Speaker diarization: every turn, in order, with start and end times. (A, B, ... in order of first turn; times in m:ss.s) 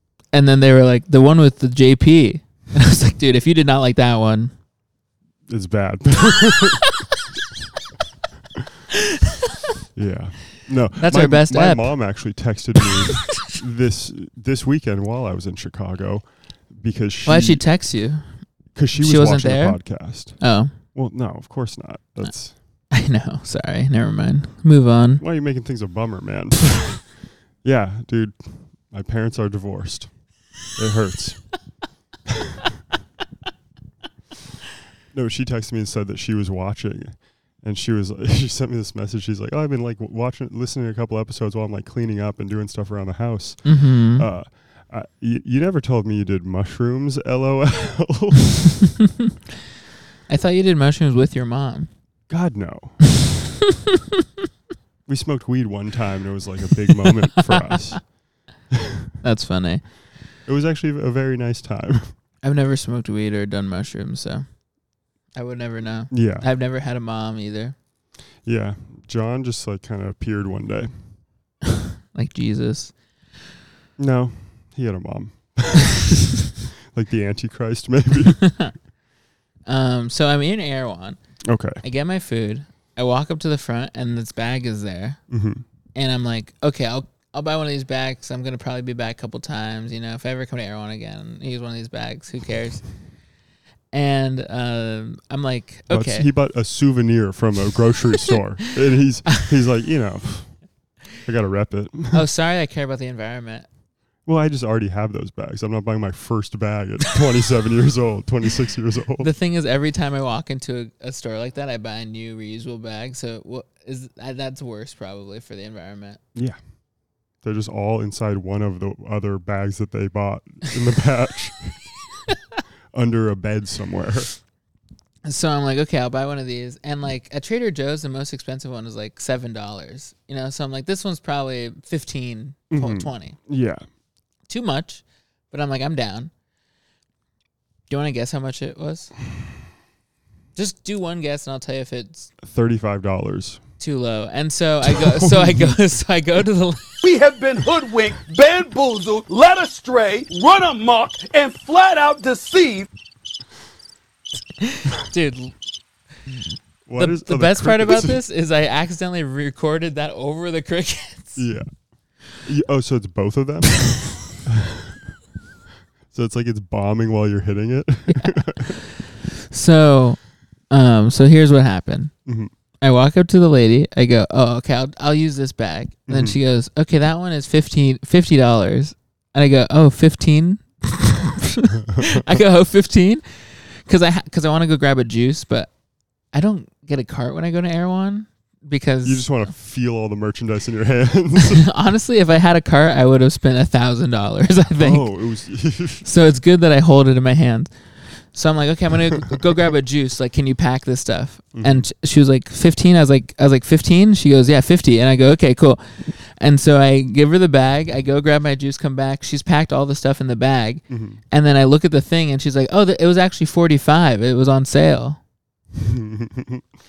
0:00.3-0:04.5 A
0:05.5-0:06.9 B
0:08.9-0:09.3 A
0:10.0-0:17.6 B
0:11.0-0:12.1 A
0:17.3-0:20.7 A
0:18.7-0:22.6 B
0:22.9-0:25.2 A
0:25.2-0:27.1 B
0:27.6-0:30.1 B
0:30.7-0:31.5 B
0:35.1-0:48.7 B
0:43.6-0:44.2 A
0:50.3-0:51.9 A
0:52.3-0:53.1 B
0:55.1-0:58.0 B
0:57.4-0:57.7 A
0:59.2-0:59.9 A
1:00.5-1:02.1 B
1:02.4-1:04.4 A
1:05.4-1:07.8 A
1:06.1-1:06.5 B
1:08.4-1:11.1 B
1:11.7-1:12.9 A
1:14.0-1:16.1 B
1:16.9-1:18.4 B
1:18.4-1:18.7 A
1:19.7-1:21.2 A
1:21.5-1:21.8 B
1:21.8-1:25.2 A
1:25.3-1:25.6 B
1:26.0-1:32.8 A
1:33.9-1:36.3 A
1:35.9-1:40.5 B
1:41.2-1:42.2 B
1:42.1-1:43.7 A
1:44.3-1:49.3 B
1:49.2-1:56.2 A
1:57.4-2:01.8 B
2:02.9-2:04.3 B
2:05.2-2:13.4 A
2:12.7-2:13.8 B
2:14.5-2:16.3 A
2:17.9-2:19.1 A
2:20.6-2:22.3 A
2:22.4-2:23.6 B
2:23.8-2:27.0 A
2:25.0-2:25.7 B
2:27.0-2:32.9 C
2:34.6-2:35.5 A
2:36.9-2:38.2 B
2:37.0-2:41.4 A
2:41.4-2:41.7 B
2:42.4-2:45.0 B
2:46.1-2:48.8 B
2:48.1-2:48.9 A
2:49.5-2:52.1 A
2:52.3-2:52.5 B
2:52.8-3:05.7 A
2:56.1-2:56.4 B
3:01.9-3:02.2 B
3:06.3-3:09.5 A
3:09.0-3:11.6 B
3:11.4-3:15.1 A
3:14.8-3:16.1 B
3:16.0-3:35.2 A
3:19.1-3:19.4 B
3:21.5-3:21.9 B
3:30.9-3:31.2 B
3:35.8-3:36.7 B